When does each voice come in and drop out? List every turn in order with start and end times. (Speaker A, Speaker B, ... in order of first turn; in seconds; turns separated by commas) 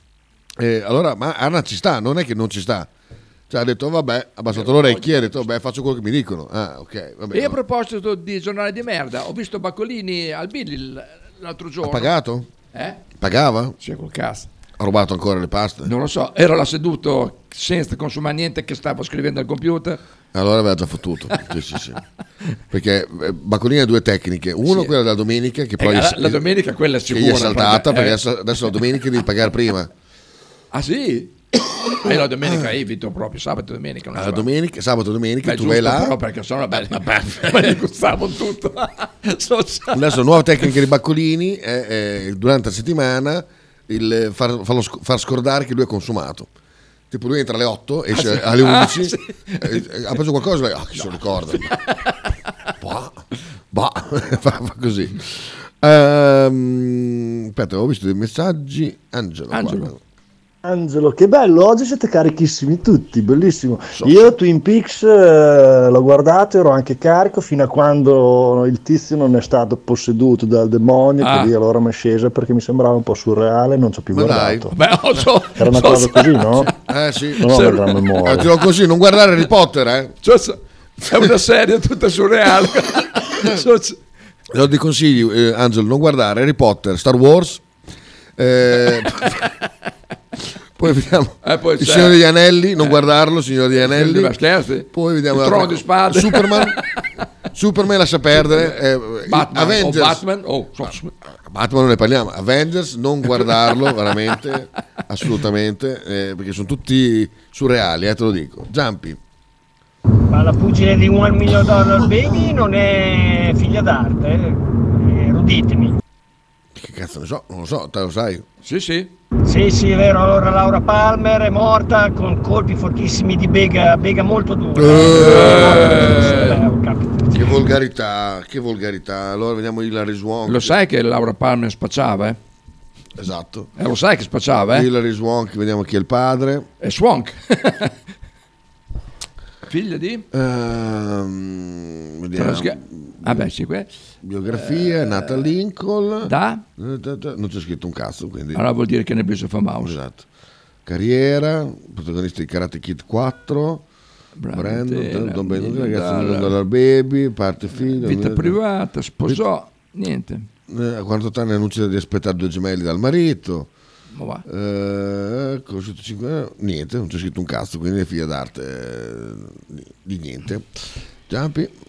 Speaker A: 0.6-2.9, Speaker A: 3.5-7.6, Speaker B: 4.5-5.5, Speaker B: 7.3-12.1, Speaker A: 11.8-12.5, Speaker B: 12.7-13.0, Speaker A: 13.2-13.8, Speaker B: 13.8-14.5, Speaker A: 14.8-15.9, Speaker B: 15.8-20.0, Speaker A: 20.3-22.0, Speaker A: 22.7-26.4, Speaker B: 24.6-24.9, Speaker B: 25.8-28.2, Speaker A: 27.1-29.9, Speaker B: 30.7-31.3, Speaker B: 31.9-34.5, Speaker A: 32.1-32.7, Speaker A: 34.1-36.2, Speaker B: 35.4-40.2, Speaker A: 36.7-37.8, Speaker A: 39.9-46.5, Speaker A: 47.1-51.7, Speaker B: 48.1-49.8, Speaker B: 51.0-51.8, Speaker A: 52.8-60.0, Speaker B: 59.5-59.9, Speaker C: 60.6-74.7, Speaker B: 64.0-64.3, Speaker B: 71.2-71.5, Speaker A: 74.1-74.7, Speaker B: 74.7-76.7, Speaker C: 75.6-76.7, Speaker A: 76.7-77.7, Speaker B: 77.4-78.0, Speaker C: 77.4-78.5, Speaker A: 78.2-80.2, Speaker B: 80.2-84.0, Speaker A: 84.5-87.6, Speaker A: 88.4-89.5, Speaker A: 90.8-94.3, Speaker B: 91.4-92.2, Speaker B: 93.8-97.0, Speaker A: 94.9-96.8, Speaker A: 97.5-100.2, Speaker B: 98.3-101.1, Speaker A: 100.8-109.2, Speaker D: 110.3-116.0, Speaker A: 116.7-118.5, Speaker B: 118.6-119.1, Speaker D: 119.4-127.6, Speaker A: 124.7-126.1, Speaker B: 125.1-126.6, Speaker A: 127.3-130.8, Speaker B: 130.4-132.4, Speaker A: 133.2-133.7, Speaker B: 133.8-134.9, Speaker A: 134.7-136.7, Speaker B: 136.8-137.9, Speaker B: 139.7-140.2, Speaker A: 140.3-143.5, Speaker B: 142.3-143.9, Speaker A: 144.2-148.6, Speaker B: 144.5-145.5, Speaker B: 146.2-146.6, Speaker B: 148.5-149.9, Speaker A: 149.8-150.2, Speaker A: 150.8-153.8, Speaker B: 154.4-156.5, Speaker A: 154.5-158.6, Speaker B: 157.8-160.5, Speaker A: 160.7-163.7, Speaker B: 164.1-164.4, Speaker A: 164.4-170.7, Speaker A: 171.3-171.7